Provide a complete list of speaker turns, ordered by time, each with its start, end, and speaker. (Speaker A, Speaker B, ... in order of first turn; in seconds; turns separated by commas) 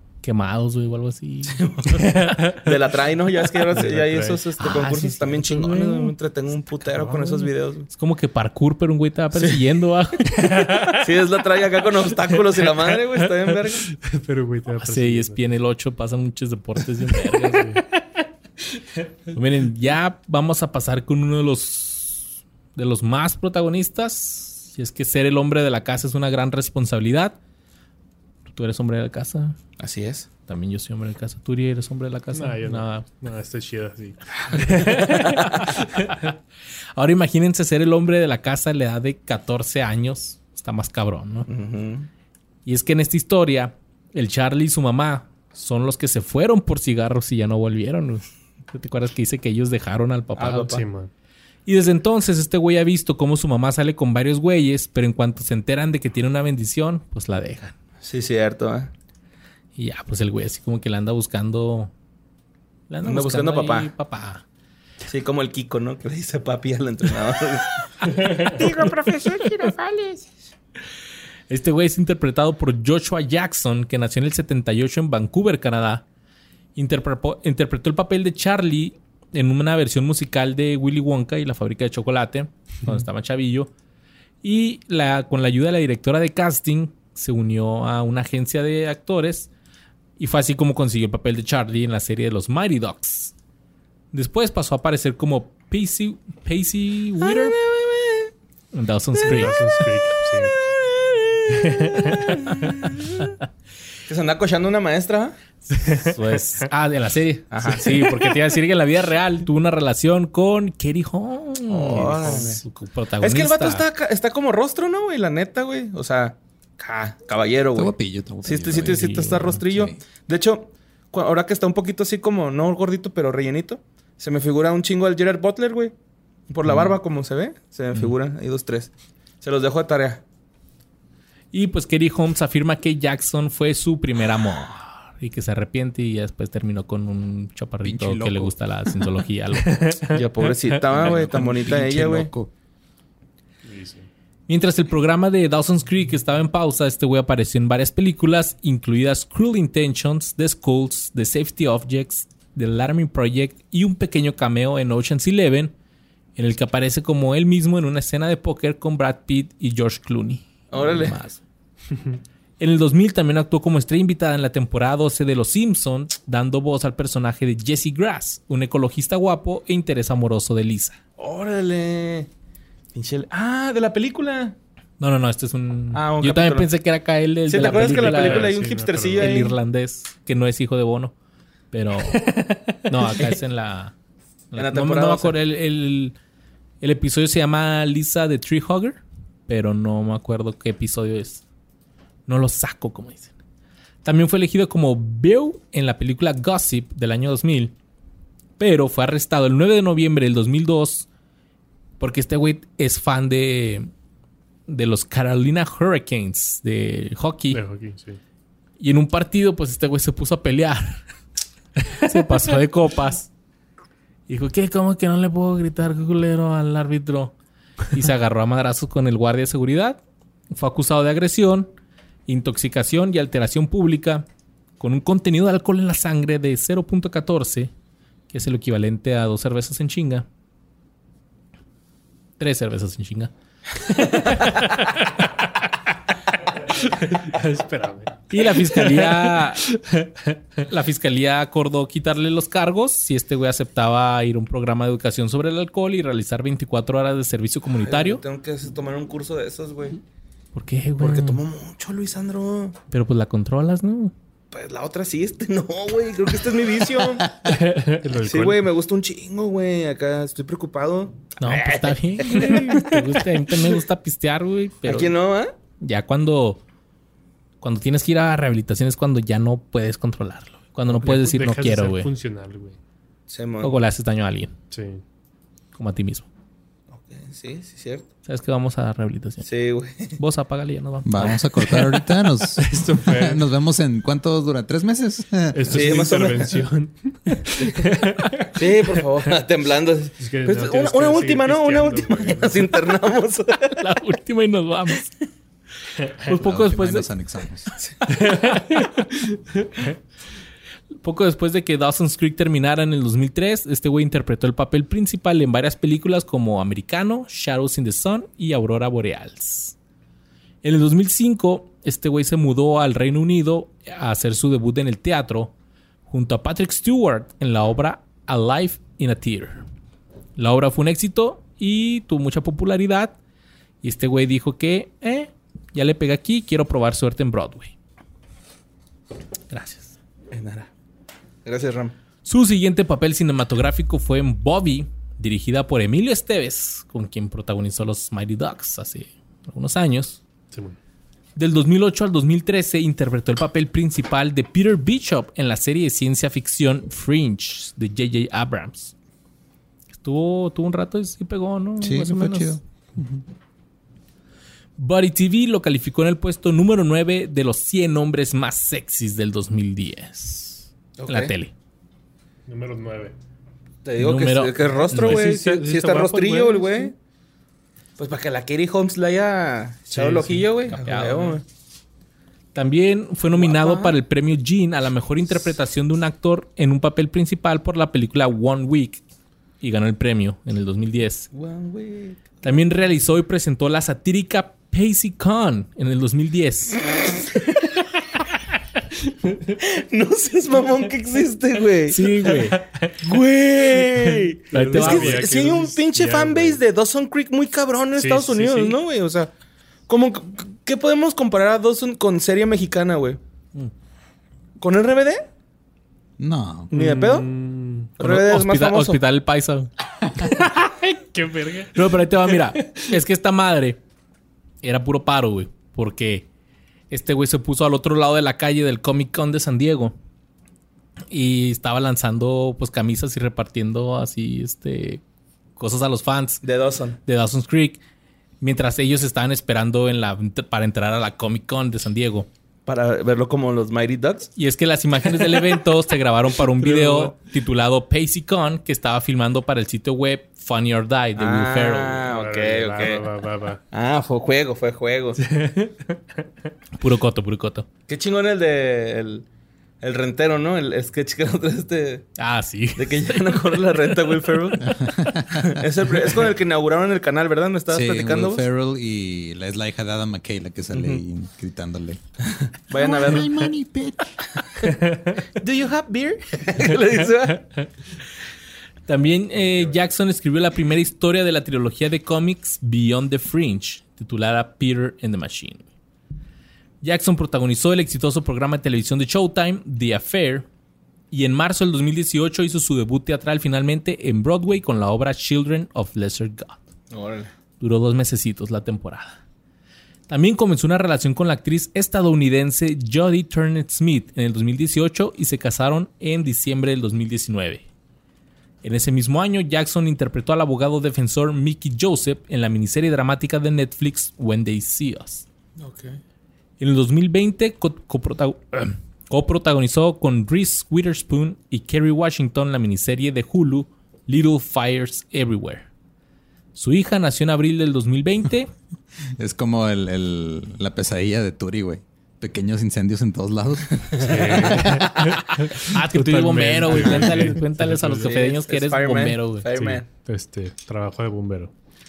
Speaker A: 0.2-2.2, Speaker B: 1.5-7.9, Speaker C: 2.0-2.7, Speaker C: 3.6-4.4, Speaker A: 4.6-6.1, Speaker C: 7.0-7.5, Speaker A: 7.9-10.9, Speaker B: 9.3-9.6, Speaker C: 10.5-11.1, Speaker B: 10.8-13.9, Speaker C: 13.9-15.4, Speaker A: 14.8-17.8, Speaker C: 17.1-18.0, Speaker A: 19.3-27.4, Speaker A: 28.5-29.6, Speaker B: 29.8-30.3, Speaker A: 30.5-33.0, Speaker C: 32.3-35.6, Speaker A: 34.6-36.4, Speaker B: 34.7-35.7, Speaker A: 37.0-41.5, Speaker B: 41.5-42.1, Speaker A: 42.6-50.8, Speaker B: 50.4-50.8, Speaker C: 50.7-51.1, Speaker A: 51.6-57.7, Speaker B: 58.0-58.9, Speaker A: 59.8-61.9, Speaker A: 62.9-64.4, Speaker B: 63.0-63.9, Speaker B: 65.1-70.3, Speaker A: 71.5-76.0, Speaker A: 76.8-83.7, Speaker A: 84.4-89.5, Speaker A: 90.2-93.3, Speaker A: 94.1-97.6, Speaker B: 97.2-98.3, Speaker A: 98.7-99.6, Speaker C: 99.2-100.5, Speaker B: 100.4-103.4, Speaker C: 101.5-102.8, Speaker B: 104.1-105.3, Speaker A: 105.7-113.8, Speaker B: 107.5-108.1, Speaker B: 111.7-112.6, Speaker B: 113.2-125.9, Speaker D: 117.7-120.0, Speaker A: 118.7-119.6, Speaker B: 126.5-130.2, Speaker A: 131.5-139.9, Speaker D: 137.8-138.5, Speaker C: 139.7-140.5, Speaker B: 140.1-142.3, Speaker D: 140.9-142.5, Speaker C: 143.6-144.1, Speaker A: 144.5-155.7, Speaker A: 156.3-161.4, Speaker B: 160.7-161.2, Speaker A: 162.6-171.0, Speaker B: 171.2-172.3, Speaker B: 172.9-174.5, Speaker A: 175.0-178.6, Speaker B: 175.9-176.7, Speaker B: 177.5-179.5, Speaker C: 177.6-179.6, Speaker A: 179.2-181.1, Speaker A: 181.7-182.2, Speaker C: 182.0-182.8, Speaker A: 182.8-183.9, Speaker A: 184.5-186.1, Speaker B: 184.6-185.3, Speaker A: 186.8-191.4, Speaker A: 192.3-193.3, Speaker A: 194.0-197.7, Speaker A: 198.6-201.1, Speaker A: 202.0-203.9, Speaker A: 204.7-207.6, Speaker C: 207.5-208.2, Speaker A: 208.8-211.0, Speaker A: 211.8-213.3, Speaker A: 214.3-217.3, Speaker A: 217.9-220.0, Speaker A: 220.5-221.7, Speaker A: 222.3-224.2, Speaker A: 224.8-227.7, Speaker A: 228.3-230.3, Speaker A: 232.4-233.3, Speaker A: 233.9-234.6, Speaker B: 234.0-234.5, Speaker C: 234.8-235.6, Speaker C: 236.6-240.4, Speaker A: 238.3-239.6, Speaker A: 240.7-248.2, Speaker B: 247.8-250.0, Speaker A: 250.5-251.4, Speaker B: 251.0-252.8, Speaker A: 252.9-254.1, Speaker B: 254.5-257.3, Speaker C: 257.4-258.7, Speaker B: 258.2-263.2, Speaker A: 261.4-265.1, Speaker B: 264.8-265.6, Speaker A: 265.8-266.6, Speaker A: 267.6-272.1, Speaker C: 270.9-272.8, Speaker B: 273.3-273.8, Speaker A: 273.6-274.5, Speaker C: 274.7-275.0, Speaker A: 275.7-276.3, Speaker B: 276.9-278.1, Speaker A: 278.2-279.5, Speaker B: 279.4-280.2, Speaker A: 280.2-281.9, Speaker D: 281.0-286.1, Speaker C: 282.6-283.4, Speaker C: 285.5-289.0, Speaker B: 285.7-286.6, Speaker B: 287.6-287.9, Speaker B: 288.5-293.8, Speaker C: 290.2-292.7, Speaker A: 293.8-295.1, Speaker A: 296.2-297.1, Speaker D: 296.3-297.7, Speaker A: 298.2-299.0, Speaker C: 298.2-299.1, Speaker A: 301.0-309.8, Speaker A: 310.6-315.5, Speaker A: 316.1-319.6, Speaker A: 320.4-323.1, Speaker A: 323.8-327.7, Speaker A: 329.5-329.9, Speaker B: 330.3-330.7, Speaker B: 331.4-331.9, Speaker A: 332.2-340.2, Speaker C: 340.5-340.8, Speaker A: 341.4-348.9, Speaker A: 350.0-352.6, Speaker D: 351.8-353.2, Speaker A: 354.8-361.5, Speaker B: 361.0-361.3, Speaker C: 362.5-363.1, Speaker B: 363.8-366.9, Speaker A: 364.0-365.3, Speaker C: 364.7-366.9, Speaker B: 368.0-371.4, Speaker C: 369.9-370.5, Speaker A: 370.7-371.4, Speaker A: 372.5-379.0, Speaker B: 373.3-374.0, Speaker A: 379.6-381.3, Speaker B: 381.3-382.5, Speaker A: 382.4-386.8, Speaker B: 386.9-387.8, Speaker B: 389.5-392.5, Speaker A: 391.9-392.6, Speaker C: 392.3-393.0, Speaker B: 393.0-399.3, Speaker C: 393.9-396.6, Speaker A: 394.5-395.2, Speaker C: 397.9-398.8, Speaker B: 399.9-403.2, Speaker B: 404.6-405.3, Speaker D: 406.2-406.7, Speaker C: 406.7-407.9, Speaker B: 406.7-407.3, Speaker B: 408.0-409.0, Speaker A: 408.0-410.8, Speaker C: 410.8-412.8, Speaker A: 411.7-413.8, Speaker A: 414.6-416.3, Speaker A: 416.9-419.9, Speaker A: 421.1-425.0, Speaker A: 425.6-426.4, Speaker B: 426.4-427.0, Speaker A: 427.0-427.8, Speaker A: 428.4-432.3, Speaker B: 432.6-434.3, Speaker A: 434.4-442.1, Speaker C: 436.6-437.1, Speaker B: 441.2-443.1, Speaker C: 442.1-443.6, Speaker B: 443.7-445.2, Speaker C: 445.2-446.0, Speaker A: 446.8-447.6, Speaker B: 447.9-449.2, Speaker B: 449.8-452.1, Speaker A: 452.2-453.4, Speaker B: 452.8-458.4, Speaker D: 454.7-455.5, Speaker D: 457.7-462.0, Speaker B: 460.7-461.0, Speaker B: 462.4-463.4, Speaker D: 462.7-464.2, Speaker B: 464.4-464.8, Speaker C: 464.9-465.1, Speaker B: 465.3-467.5, Speaker A: 468.9-475.6, Speaker A: 476.8-480.4, Speaker A: 481.1-486.6, Speaker B: 486.9-487.3, Speaker A: 487.6-489.2, Speaker A: 490.1-497.6, Speaker A: 498.6-505.2, Speaker B: 505.6-506.0, Speaker A: 506.6-515.6, Speaker A: 516.5-518.5, Speaker D: 519.2-525.1, Speaker B: 523.9-524.7, Speaker C: 524.0-528.1, Speaker A: 525.6-529.5, Speaker B: 527.9-529.8, Speaker C: 529.5-531.5